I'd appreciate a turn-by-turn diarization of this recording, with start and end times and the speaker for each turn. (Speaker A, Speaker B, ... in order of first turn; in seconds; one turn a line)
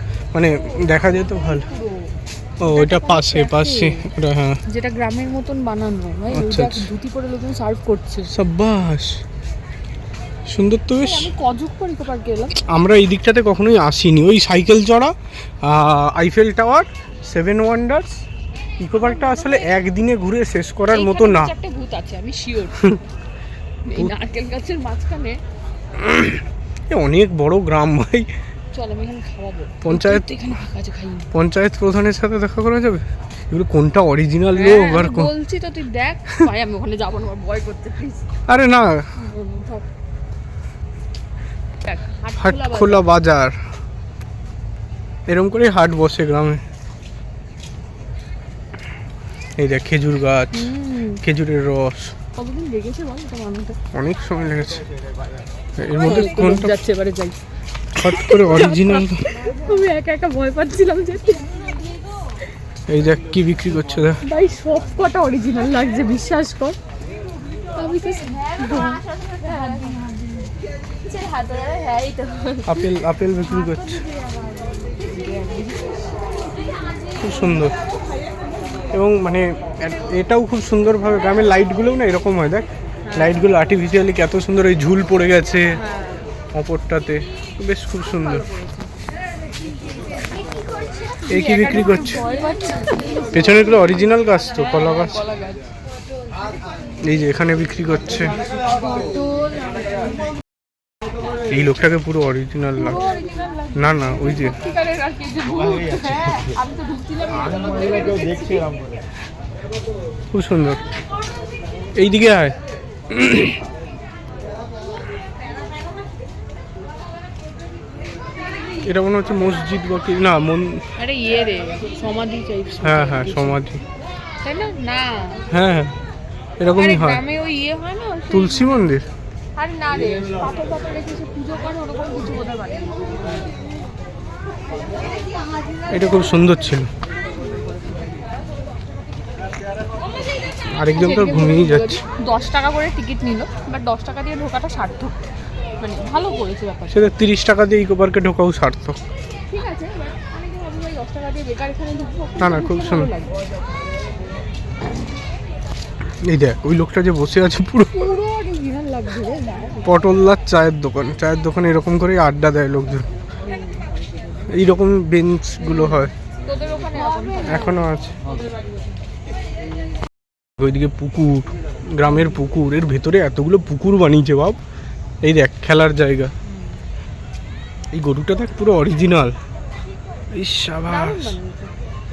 Speaker A: 0.3-1.7
Speaker B: 0.5-4.1
Speaker A: 2.6-4.6
Speaker B: 4.7-8.3
Speaker A: 6.3-6.9
Speaker A: 8.3-9.2
Speaker A: 10.5-11.3
Speaker B: 10.9-12.6
Speaker A: 12.6-18.2
Speaker A: 18.8-21.5
Speaker B: 18.9-19.7
Speaker B: 20.9-23.0
Speaker B: 23.8-25.4
Speaker A: 25.9-28.3
Speaker B: 28.7-31.3
Speaker A: 29.8-30.2
Speaker A: 31.3-35.3
Speaker B: 34.5-38.3
Speaker A: 38.5-39.1
Speaker B: 39.2-39.9
Speaker B: 41.8-43.0
Speaker A: 42.4-43.6
Speaker A: 45.3-46.6
Speaker A: 49.6-50.7
Speaker B: 50.5-51.2
Speaker A: 51.2-52.1
Speaker B: 52.3-53.8
Speaker A: 53.9-54.9
Speaker A: 55.8-56.7
Speaker B: 55.9-57.4
Speaker A: 57.9-59.3
Speaker B: 58.0-61.6
Speaker A: 62.9-64.2
Speaker B: 64.2-66.8
Speaker B: 67.7-70.5
Speaker B: 71.1-72.8
Speaker A: 72.7-74.0
Speaker B: 74.8-76.0
Speaker A: 77.2-77.7
Speaker A: 78.9-85.8
Speaker B: 83.0-83.5
Speaker B: 85.7-86.2
Speaker A: 86.5-88.5
Speaker B: 88.4-88.9
Speaker B: 90.8-95.7
Speaker A: 91.3-92.2
Speaker A: 93.3-95.2
Speaker A: 97.0-98.4
Speaker B: 98.7-100.2
Speaker A: 101.5-103.0
Speaker B: 102.8-108.8
Speaker A: 103.7-104.6
Speaker A: 110.3-110.8
Speaker A: 112.0-112.5
Speaker A: 113.1-113.6
Speaker A: 118.8-120.8
Speaker B: 121.0-123.6
Speaker A: 122.8-123.8
Speaker B: 124.4-125.4
Speaker A: 125.5-125.9
Speaker A: 126.6-127.2
Speaker B: 126.7-128.9
Speaker A: 128.3-129.1
Speaker B: 129.5-133.4
Speaker A: 135.9-136.9
Speaker B: 137.3-138.2
Speaker A: 140.7-142.0
Speaker B: 140.8-145.2
Speaker B: 145.8-147.1
Speaker A: 146.9-149.0
Speaker B: 149.5-153.4
Speaker A: 152.4-153.1
Speaker A: 156.2-158.1
Speaker B: 157.9-159.9
Speaker A: 159.8-163.1
Speaker B: 163.4-163.8
Speaker A: 164.4-166.1
Speaker B: 165.6-168.9
Speaker A: 167.4-168.2
Speaker A: 170.6-174.6
Speaker B: 172.1-172.4
Speaker A: 175.2-176.3
Speaker B: 176.5-176.7
Speaker A: 177.9-179.4
Speaker A: 180.3-181.4
Speaker B: 180.8-181.7